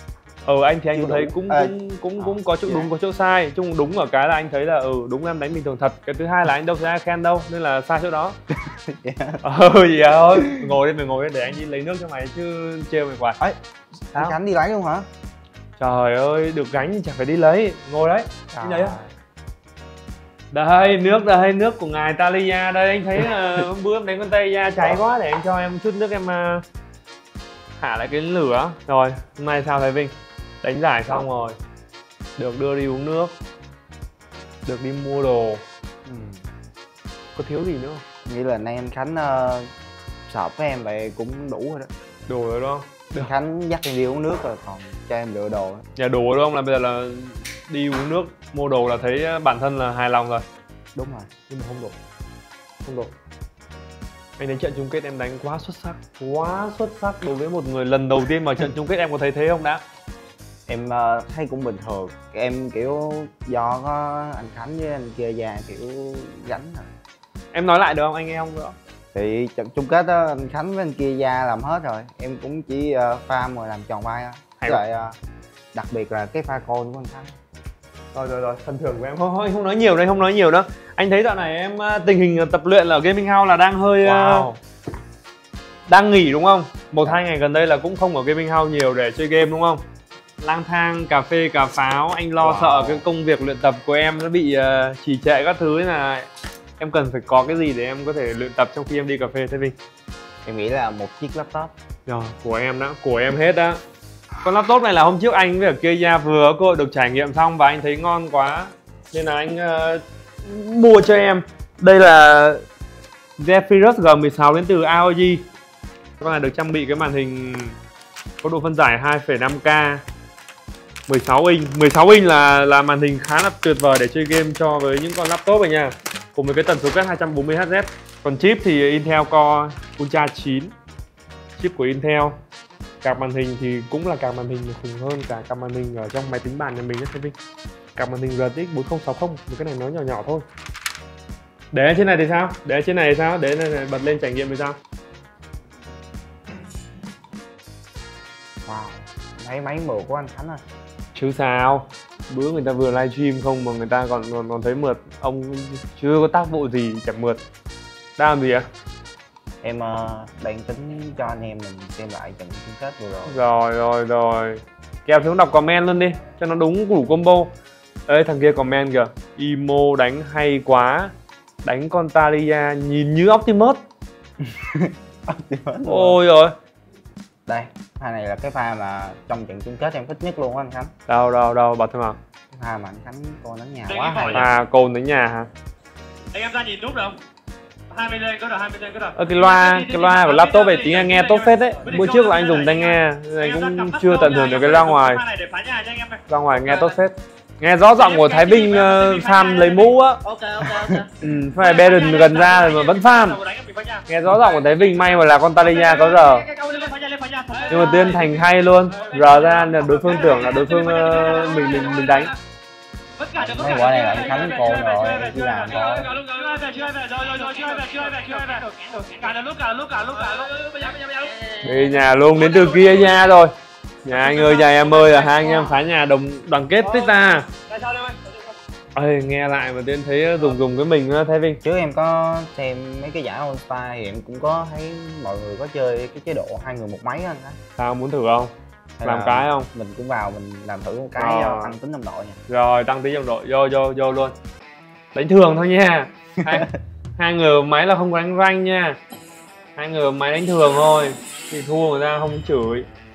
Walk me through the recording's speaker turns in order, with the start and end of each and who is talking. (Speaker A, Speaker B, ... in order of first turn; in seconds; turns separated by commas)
Speaker A: 0.5-8.4, Speaker B: 0.9-2.9, Speaker B: 8.6-9.4, Speaker A: 9.4-13.4, Speaker B: 10.3-10.7, Speaker B: 14.1-15.1, Speaker A: 15.8-19.0, Speaker B: 18.5-19.1, Speaker A: 20.5-26.6, Speaker A: 27.8-31.6, Speaker A: 32.4-33.3, Speaker A: 34.6-35.6, Speaker B: 36.0-36.4, Speaker A: 37.4-38.0, Speaker B: 38.2-39.7, Speaker B: 40.3-41.9, Speaker A: 42.3-43.3, Speaker B: 43.1-45.8, Speaker A: 46.0-50.4, Speaker B: 50.9-51.3, Speaker A: 51.5-51.9, Speaker A: 52.8-53.1, Speaker A: 54.4-59.8, Speaker B: 60.7-66.9, Speaker A: 67.5-68.8, Speaker B: 69.1-75.2, Speaker B: 75.7-77.3, Speaker A: 78.1-84.6, Speaker B: 84.0-84.5, Speaker A: 85.9-89.8, Speaker A: 90.4-99.7, Speaker B: 92.4-93.0, Speaker B: 100.4-101.7, Speaker A: 102.0-103.8, Speaker A: 104.4-112.6, Speaker A: 113.4-115.4, Speaker A: 116.2-117.8, Speaker A: 118.4-120.0, Speaker A: 121.1-130.7, Speaker A: 131.6-132.4, Speaker A: 133.0-137.3, Speaker A: 137.9-140.4, Speaker A: 141.7-144.8, Speaker B: 148.7-150.6, Speaker A: 151.1-157.4, Speaker A: 158.2-158.7, Speaker B: 159.6-163.4, Speaker A: 163.3-167.5, Speaker A: 168.1-171.1, Speaker A: 171.6-173.8, Speaker B: 174.4-176.2, Speaker A: 175.8-176.5, Speaker B: 177.4-180.9, Speaker A: 181.1-182.2, Speaker B: 182.5-184.5, Speaker C: 183.9-184.3, Speaker A: 184.3-185.5, Speaker C: 186.3-187.2, Speaker C: 187.9-191.2, Speaker A: 189.1-195.2, Speaker C: 192.1-192.8, Speaker C: 193.5-196.2, Speaker A: 196.3-200.2, Speaker C: 198.2-201.0, Speaker B: 200.4-201.1, Speaker A: 201.1-203.4, Speaker C: 201.8-204.0, Speaker A: 204.1-206.5, Speaker C: 205.9-208.2, Speaker A: 207.7-212.3, Speaker C: 210.3-211.6, Speaker C: 213.2-221.6, Speaker B: 213.3-216.1, Speaker A: 221.6-223.5, Speaker A: 224.0-227.5, Speaker C: 224.4-224.8, Speaker C: 227.7-228.3, Speaker A: 228.9-231.6, Speaker B: 231.6-237.6, Speaker A: 237.8-238.5, Speaker B: 239.0-242.4, Speaker A: 239.0-239.7, Speaker A: 241.2-241.7, Speaker A: 242.5-244.3, Speaker A: 245.1-249.0, Speaker B: 246.4-246.7, Speaker A: 249.8-252.8